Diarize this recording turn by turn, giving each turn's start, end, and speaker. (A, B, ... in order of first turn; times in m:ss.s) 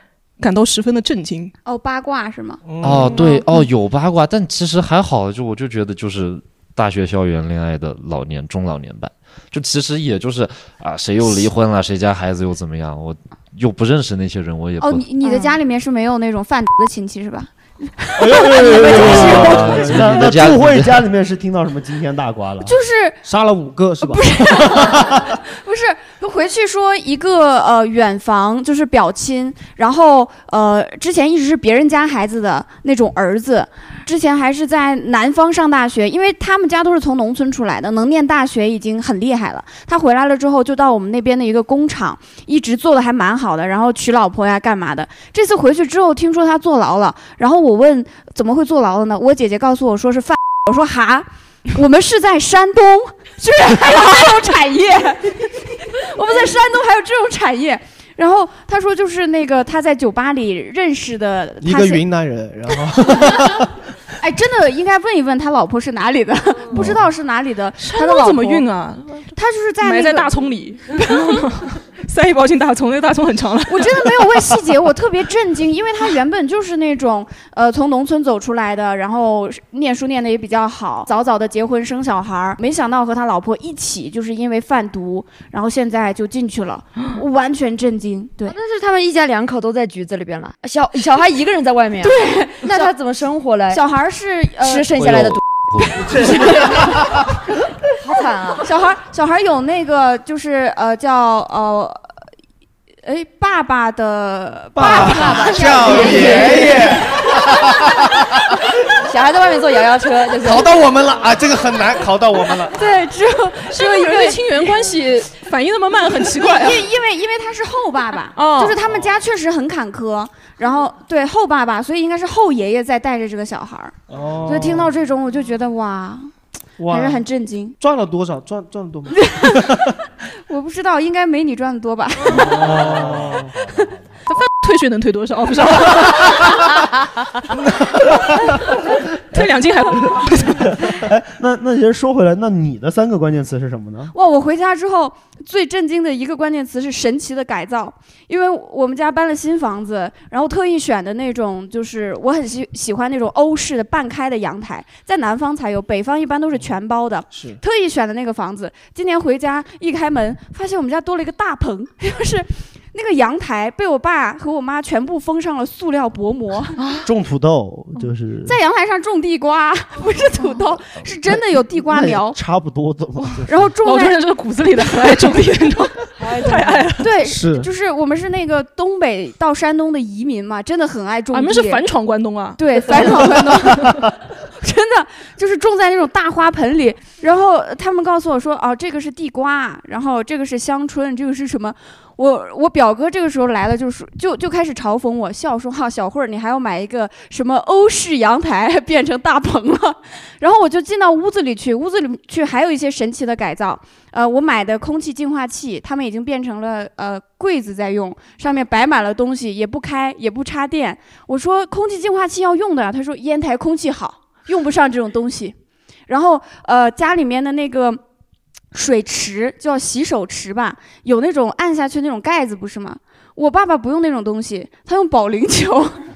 0:00.4-0:01.5 A
0:01.6-0:02.6 B
0:02.6-0:03.3 C
0:02.8-0:15.0 D
0:14.8-0:19.5 B
0:18.2-0:22.7 E
0:18.7-0:20.1 C
0:18.8-0:21.0 D
0:22.6-0:23.2 B
0:23.2-0:24.8 C
0:24.0-1:02.0 B
1:01.6-1:03.7 C
1:03.1-1:03.5 B
1:04.2-1:08.6 B
1:06.7-1:07.0 C
1:07.8-1:14.2 A
1:09.3-1:10.3 B
1:13.7-1:28.6 B
1:28.4-1:33.8 F
1:32.0-1:32.9 B
1:33.7-1:34.9 B
1:34.6-1:35.4 F
1:35.0-1:36.2 D
1:36.0-1:37.3 E
1:38.0-1:38.7 F
1:38.6-1:42.0 B
1:43.0-1:46.9 B
1:44.7-1:48.3 C
1:44.8-1:47.0 F
1:49.0-1:50.7 F
1:50.4-1:52.8 C
1:52.7-1:54.3 B
1:53.7-1:56.8 A
1:56.4-2:06.3 B
1:58.3-1:58.8 A
2:04.1-2:04.9 C
2:06.8-2:07.2 C
2:06.9-2:07.8 B
2:07.8-2:09.7 C
2:09.2-2:09.8 B
2:10.5-2:12.8 B
2:12.3-2:13.5 C
2:12.5-2:13.5 E
2:14.3-2:16.6 A
2:19.3-2:20.7 A
2:20.2-2:24.1 E
2:24.1-2:46.8 B
2:37.3-2:37.6 C
2:46.8-2:47.1 A
2:47.0-2:48.6 E
2:48.4-2:52.4 B
2:51.3-2:53.7 E
2:53.4-2:54.2 B
2:53.8-2:57.1 A
2:56.2-2:56.9 F
2:57.0-3:01.8 B
2:57.2-2:57.7 C
3:01.3-3:04.0 A
3:02.6-3:35.5 B
3:36.1-3:38.0 B
3:38.7-3:46.0 B